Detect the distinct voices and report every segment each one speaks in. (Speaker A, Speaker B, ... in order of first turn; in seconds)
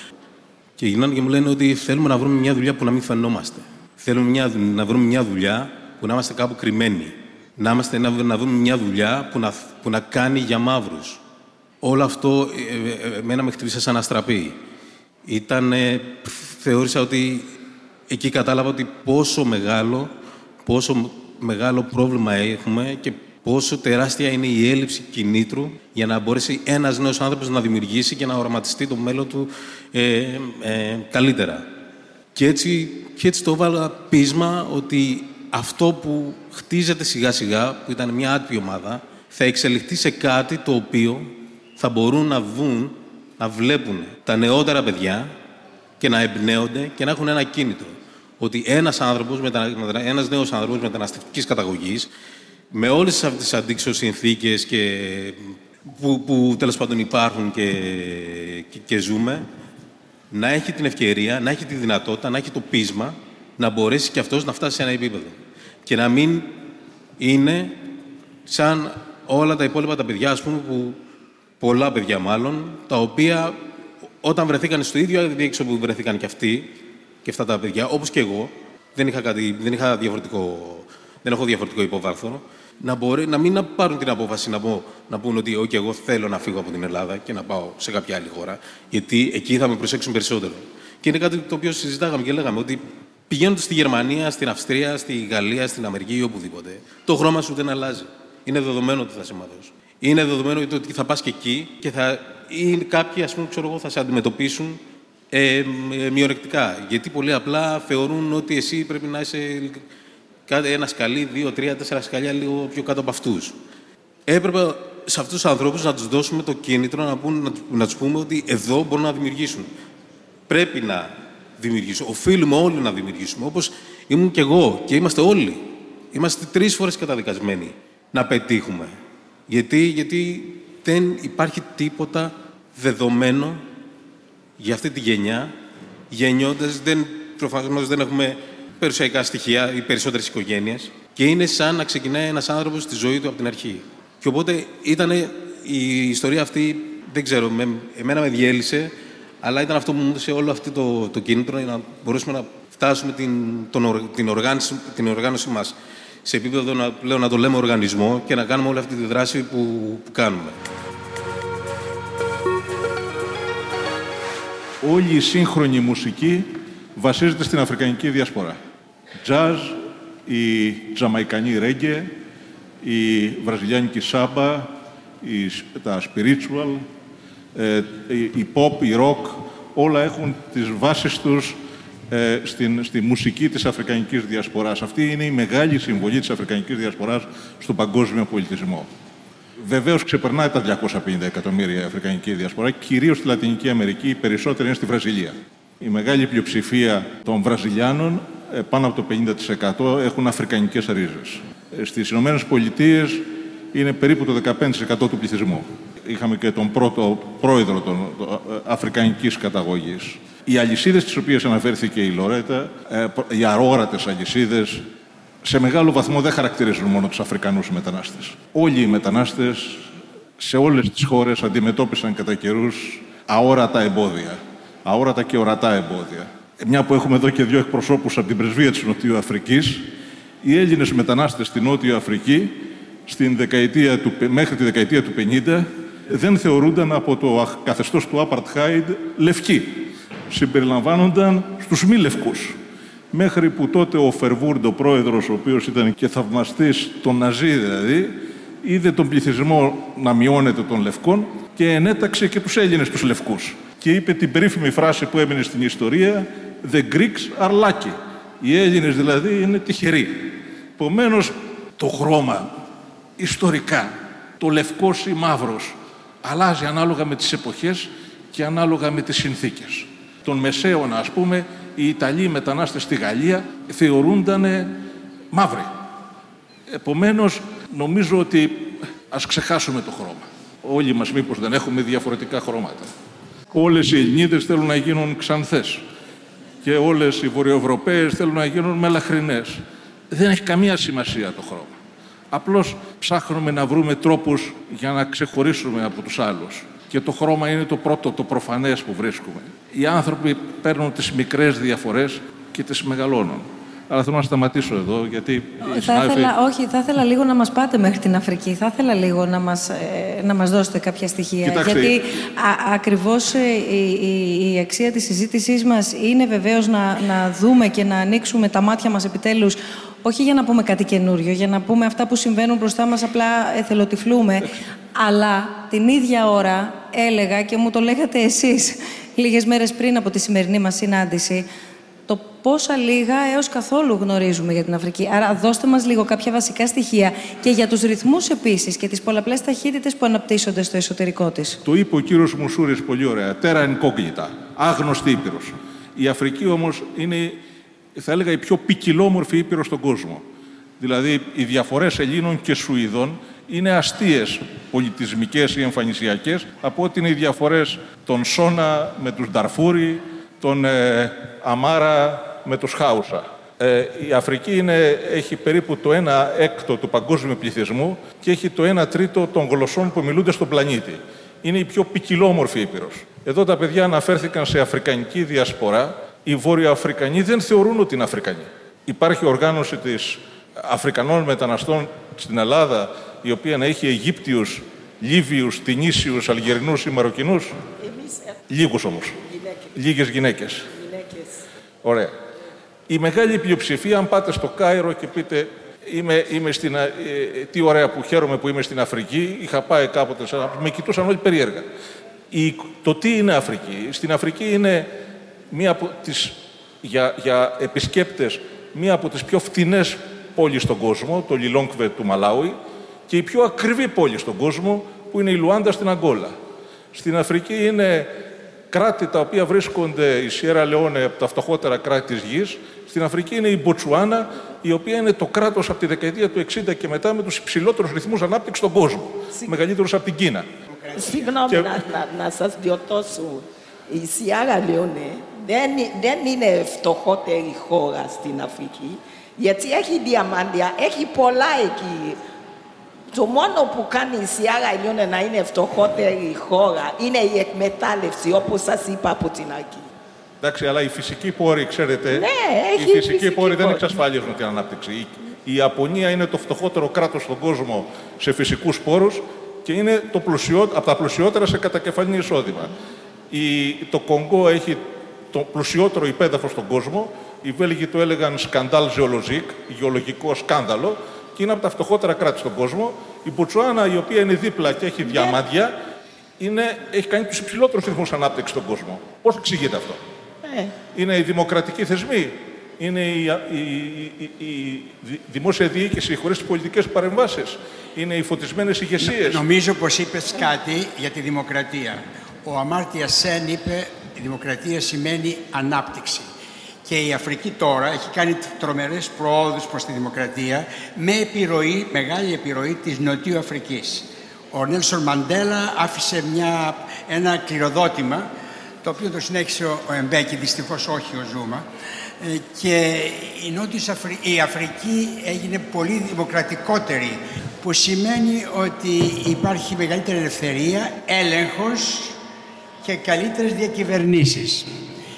Speaker A: 0.8-11.2, 11.8-14.6, 15.3-17.5, 18.1-20.1, 20.6-31.7, 32.3-45.3, 46.0-52.1, 52.7-59.5, 60.3-65.3, 65.9-66.6, 67.2-67.8, 68.5-71.0, 71.6-73.6, 74.2-76.7, 77.2-109.8, 110.5-113.6, 114.3-119.7, 120.5-128.9, 129.5-133.6, 134.6-135.5, 136.1-160.6
Speaker B: 164.8-168.6, 169.2-172.1, 172.8-176.8, 177.6-181.6, 182.1-188.9, 189.6-214.9, 215.4-219.9, 220.4-229.9, 230.4-242.6, 243.1-262.5, 263.2-274.8, 275.3-275.7, 276.8-282.9, 283.5-285.8, 286.6-291.7, 292.3-306.3, 311.4-312.0, 341.6-347.4, 348.0-350.2, 350.8-387.6, 388.5-389.2, 389.8-390.7, 391.8-392.1, 392.9-401.7, 402.3-404.9, 405.5-412.6, 413.1-416.4, 416.9-418.1, 418.7-430.5, 431.5-431.8, 450.4-462.7, 463.3-475.7, 476.4-480.0, 480.9-489.4
Speaker C: 305.6-331.5, 332.1-341.6
Speaker D: 387.8-388.4, 389.2-389.7, 390.7-391.4, 430.9-442.2, 443.1-449.9, 452.1-454.0, 480.4-480.7
Speaker E: 430.7-431.4, 489.0-496.3, 496.9-508.3, 508.8-511.6, 512.2-522.2, 522.8-524.7